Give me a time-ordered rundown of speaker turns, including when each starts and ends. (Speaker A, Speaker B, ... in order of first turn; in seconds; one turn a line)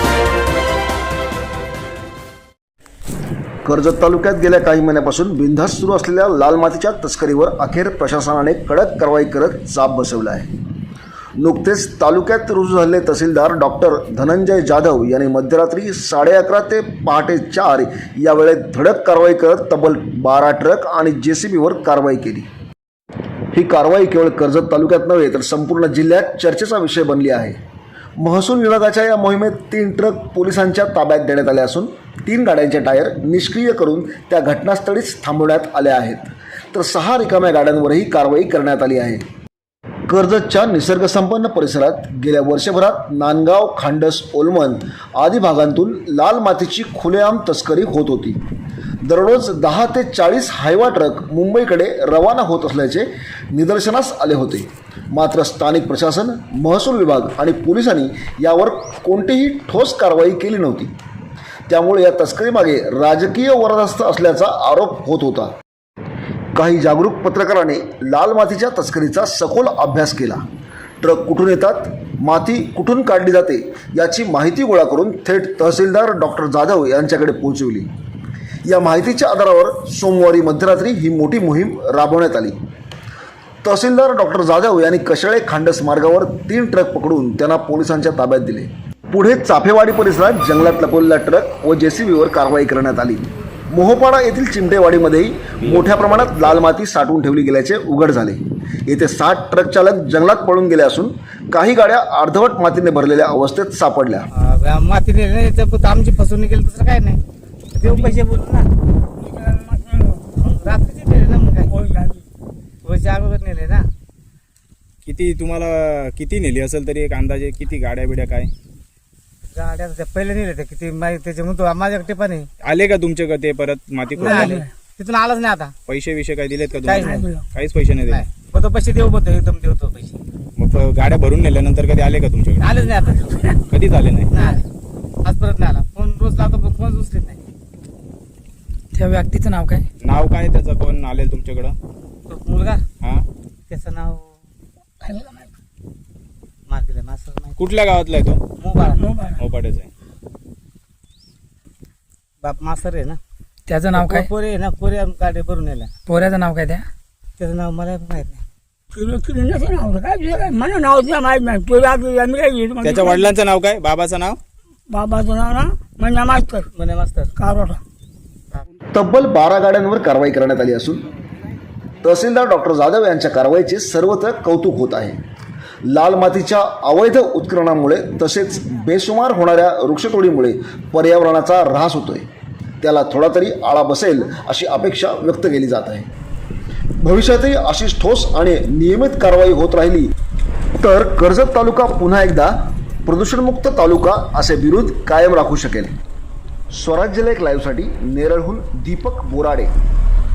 Speaker A: 3.6-10.5
Speaker A: 11.4-22.5
Speaker A: 23.5-27.6
Speaker A: 28.2-39.2
Speaker A: 40.1-48.4
Speaker A: 49.0-60.9
Speaker A: 61.7-65.5
Speaker A: 66.5-70.4
Speaker A: 71.0-77.9
Speaker A: 78.7-82.6
Speaker A: 83.6-104.3
Speaker B: 95.6-96.6
Speaker C: 104.3-107.2
Speaker C: 107.7-108.7
Speaker D: 109.2-110.3
Speaker C: 110.4-111.8
Speaker D: 111.8-112.2
Speaker C: 112.8-113.9
Speaker B: 115.0-118.5
Speaker C: 119.5-122.5
Speaker B: 122.6-124.7
Speaker C: 124.2-125.7
Speaker B: 125.9-128.2
Speaker C: 126.8-127.3
Speaker C: 128.1-130.2
Speaker B: 130.6-132.8
Speaker C: 132.6-133.6
Speaker B: 133.7-134.3
Speaker C: 134.3-134.6
Speaker C: 135.2-137.4
Speaker E: 138.9-139.8
Speaker B: 140.0-141.8
Speaker C: 142.3-142.8
Speaker C: 143.7-144.3
Speaker D: 145.0-145.5
Speaker C: 146.7-147.6
Speaker B: 147.6-148.4
Speaker C: 148.6-149.1
Speaker D: 149.1-149.3
Speaker B: 149.4-149.9
Speaker C: 152.4-153.2
Speaker E: 153.7-154.3
Speaker C: 153.9-155.9
Speaker E: 156.1-156.9
Speaker C: 157.4-158.4
Speaker D: 158.9-163.2
Speaker B: 162.8-164.4
Speaker D: 164.9-166.7
Speaker C: 166.7-167.4
Speaker D: 167.4-167.8
Speaker A: 168.9-171.1
Speaker A: 172.0-175.2
Speaker A: 175.9-182.3
Speaker A: 182.8-186.1
Speaker A: 187.0-190.1
Speaker A: 190.8-192.5
Speaker A: 193.1-195.9
Speaker A: 196.7-199.7